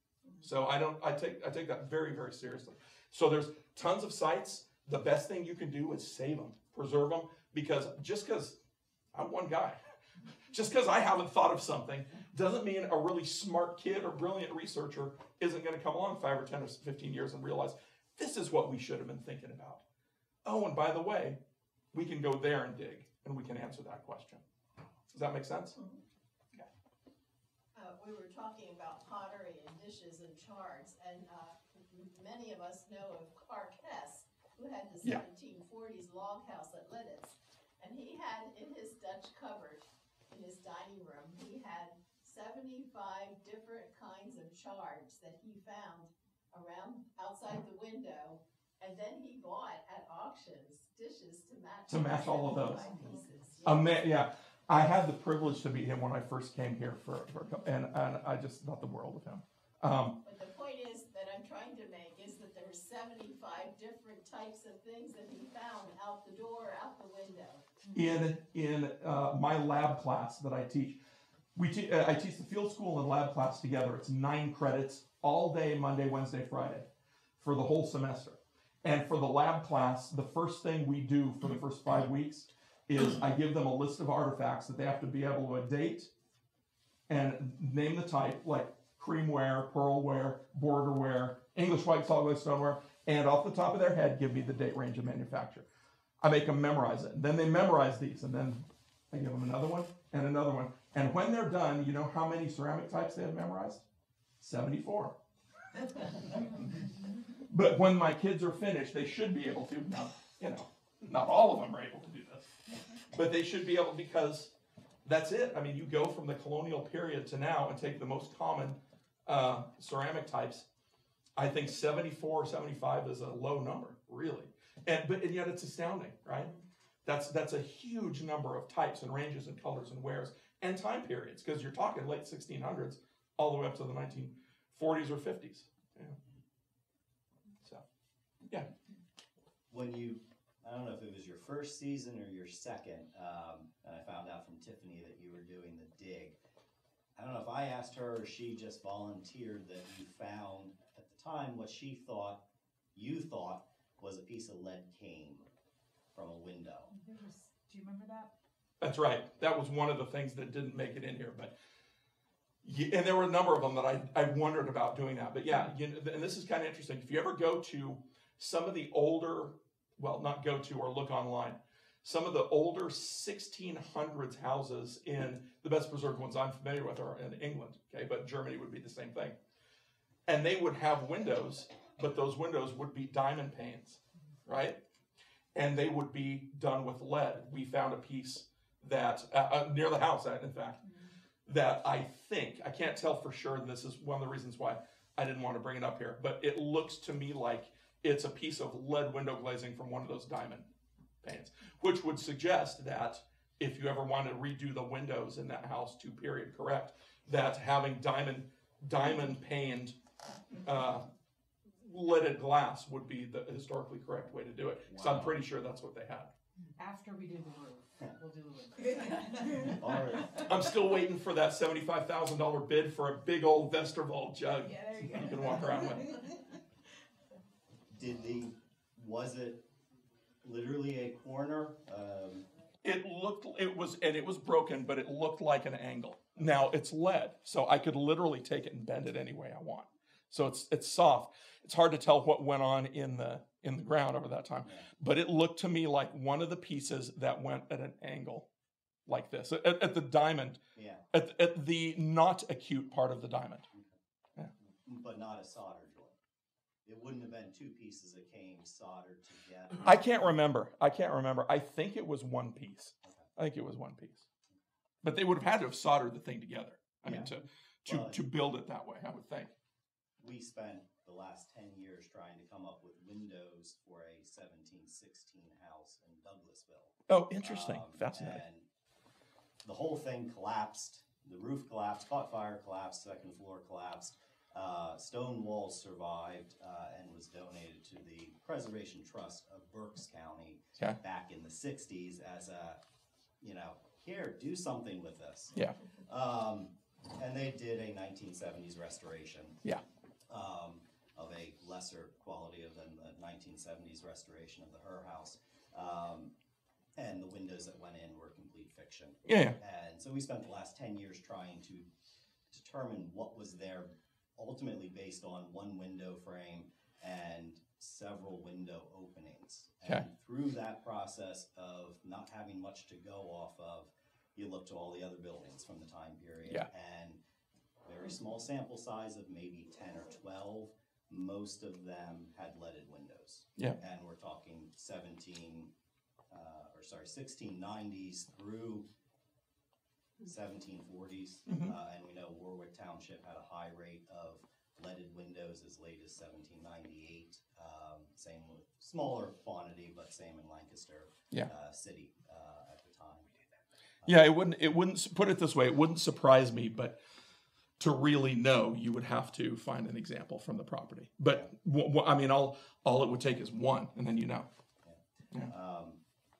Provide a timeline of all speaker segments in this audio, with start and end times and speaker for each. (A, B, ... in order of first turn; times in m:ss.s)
0:00.4-0:08.6 A
0:09.1-0:09.8 A
0:10.5-0:19.8 A
0:20.4-0:21.4 A
0:21.9-0:24.4 A
0:25.1-0:25.8 A
0:27.7-0:54.1 B
0:51.9-0:52.9 A
0:53.6-1:00.2 A
1:00.2-1:07.7 B
1:07.9-1:11.0 A
1:11.5-1:16.9 A
1:17.4-1:26.1 A
1:27.1-1:35.6 A
1:36.2-1:43.8 A
1:44.4-1:45.2 A
1:47.5-1:52.5 A
1:53.1-2:00.6 A
2:01.4-2:06.5 A
2:07.0-2:16.2 A
2:19.7-2:26.4 C
2:27.2-2:32.4 C
2:32.9-2:35.5 C
2:36.1-2:36.9 C
2:37.0-2:38.3 D
2:38.8-2:41.5 A
2:42.6-2:59.4 A
3:00.3-3:04.8 A
3:05.5-3:10.9 A
3:11.4-3:20.7 A
3:21.2-3:30.0 A
3:30.6-3:31.0 A
3:31.8-3:36.3 A
3:36.8-3:39.7 D
3:39.8-3:40.3 C
3:40.4-3:46.2 A
3:47.9-3:49.6 C
3:50.4-3:52.4 C
3:52.8-4:08.5 A
4:09.1-4:10.6 A
4:10.8-4:11.0 C
4:11.1-4:13.6 A
4:14.8-4:16.1 C
4:16.8-4:20.0 C
4:19.8-4:24.2 A
4:25.0-4:29.5 A
4:27.0-4:27.3 C
4:27.8-4:28.2 C
4:30.2-4:38.6 C
4:37.1-4:38.4 A
4:39.6-4:52.8 C
4:53.4-4:55.5 C
4:56.1-4:59.6 C
5:00.3-5:06.3 C
5:07.0-5:11.9 C
5:09.2-5:09.6 A
5:12.5-5:27.2 C
5:27.8-5:35.7 C
5:36.3-5:38.9 C
5:40.2-5:53.3 C
5:41.5-5:41.7 A
5:54.0-5:57.0 A
5:57.8-6:04.5 A
6:04.8-6:06.0 C